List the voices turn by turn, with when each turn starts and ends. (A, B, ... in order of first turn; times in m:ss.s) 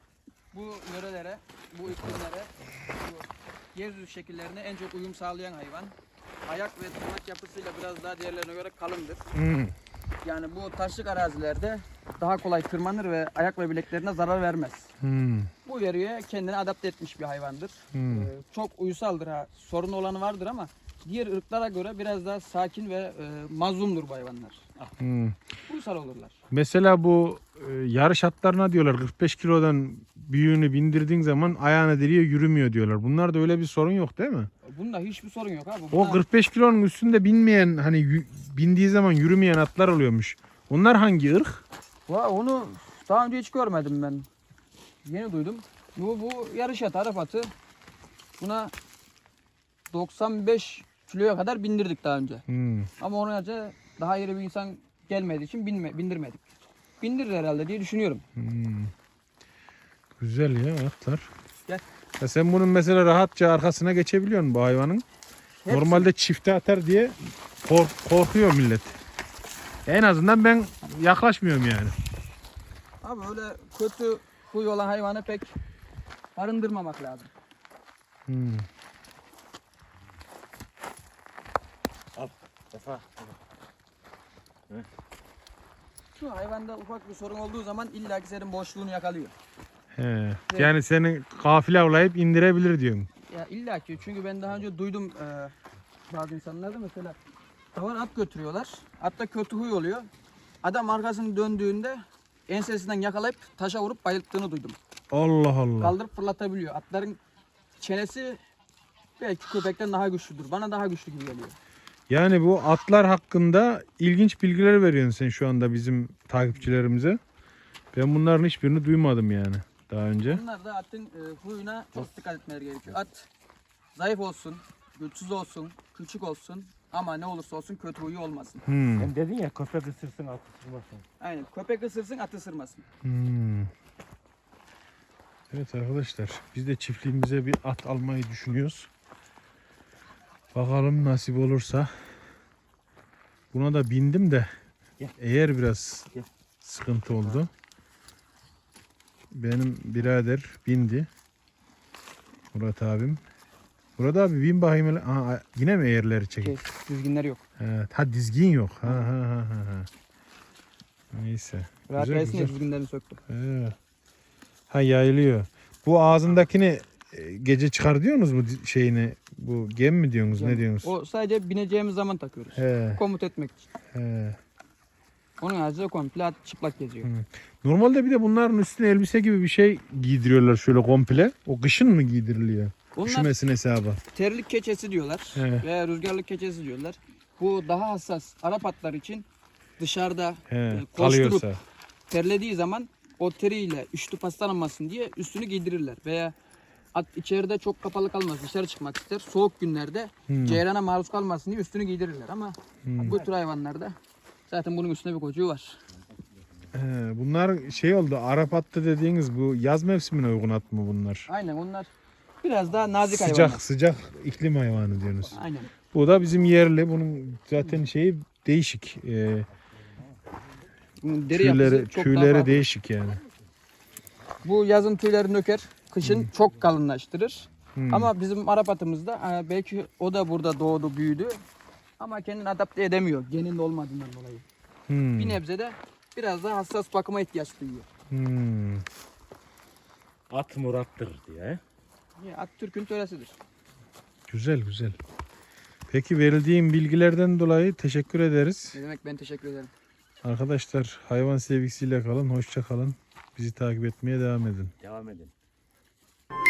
0:00.5-0:09.2 A
0:09.3-0:09.7 B
0:10.2-0:14.9 A
0:15.0-0:15.5 B
0:15.6-0:24.7 A
0:17.9-0:18.3 B
0:25.0-0:25.4 B
0:25.7-0:26.4 A
0:26.5-0:34.5 B
0:34.6-0:36.2 A
0:35.9-0:41.6 B
0:42.1-0:44.3 A
0:45.0-0:47.5 A
0:48.4-0:48.7 A
0:49.9-0:52.4 A
0:52.5-0:52.9 B
0:53.0-0:56.5 A
0:57.0-0:58.2 A
0:58.4-0:58.9 B
1:00.2-1:01.3 B
1:02.2-1:05.0 B
1:05.6-1:06.1 A
1:05.7-1:09.0 B
1:09.8-1:11.9 B
1:13.0-1:15.6 A
1:16.3-1:17.3 A
1:18.3-1:18.7 B
1:22.2-1:23.3 C
1:26.2-1:29.3 A
1:30.0-1:33.1 B
1:33.2-1:35.5 A
1:36.1-1:37.2 A
1:37.7-1:40.1 A
1:40.6-1:44.8 A
1:45.1-1:46.0 B
1:45.8-1:47.2 A
1:47.8-1:48.4 A
1:49.2-1:51.6 A
1:52.1-1:57.2 B
1:57.9-2:00.4 B
2:00.2-2:03.3 A
2:03.9-2:08.6 A
2:08.6-2:09.1 B
2:09.0-2:11.0 C
2:11.2-2:12.8 A
2:13.0-2:13.7 B
2:15.5-2:18.9 B
2:20.5-2:21.9 B
2:23.5-2:24.5 B
2:25.2-2:26.1 B
2:26.6-2:27.5 B
2:29.3-2:31.1 B
2:32.5-2:33.2 B
2:34.0-2:36.6 B
2:36.4-2:37.4 A
2:37.6-2:39.9 B
2:41.1-2:42.5 B
2:41.9-2:43.2 A
2:43.3-2:43.8 B
2:44.7-2:50.9 B
2:50.3-2:53.7 A
2:52.6-2:53.0 B
2:53.9-2:54.4 B
2:55.4-2:57.1 A
2:57.0-3:04.0 B
3:02.9-3:03.3 A
3:04.1-3:09.2 A
3:05.3-3:05.6 B
3:09.8-3:11.5 A
3:10.5-3:11.6 B
3:12.1-3:16.3 A
3:16.9-3:24.0 A
3:20.3-3:20.6 B
3:22.8-3:23.2 B
3:24.5-3:25.8 A
3:26.7-3:31.3 B
3:31.3-3:31.9 A
3:32.4-3:33.6 A
3:33.0-3:35.4 B
3:35.3-3:35.7 A
3:35.9-3:39.5 B
3:41.0-3:42.6 A
3:41.3-3:43.2 B
3:44.4-3:51.4 A
3:46.0-3:46.3 B
3:47.8-3:48.1 B
3:52.0-3:54.4 A
3:54.9-3:55.4 B
3:55.2-3:57.9 A
3:58.1-3:58.8 B
4:00.3-4:01.6 C
4:02.2-4:03.4 A
4:04.3-4:05.0 B
4:05.9-4:08.8 B
4:08.7-4:09.7 A
4:10.2-4:14.7 B
4:14.8-4:15.3 C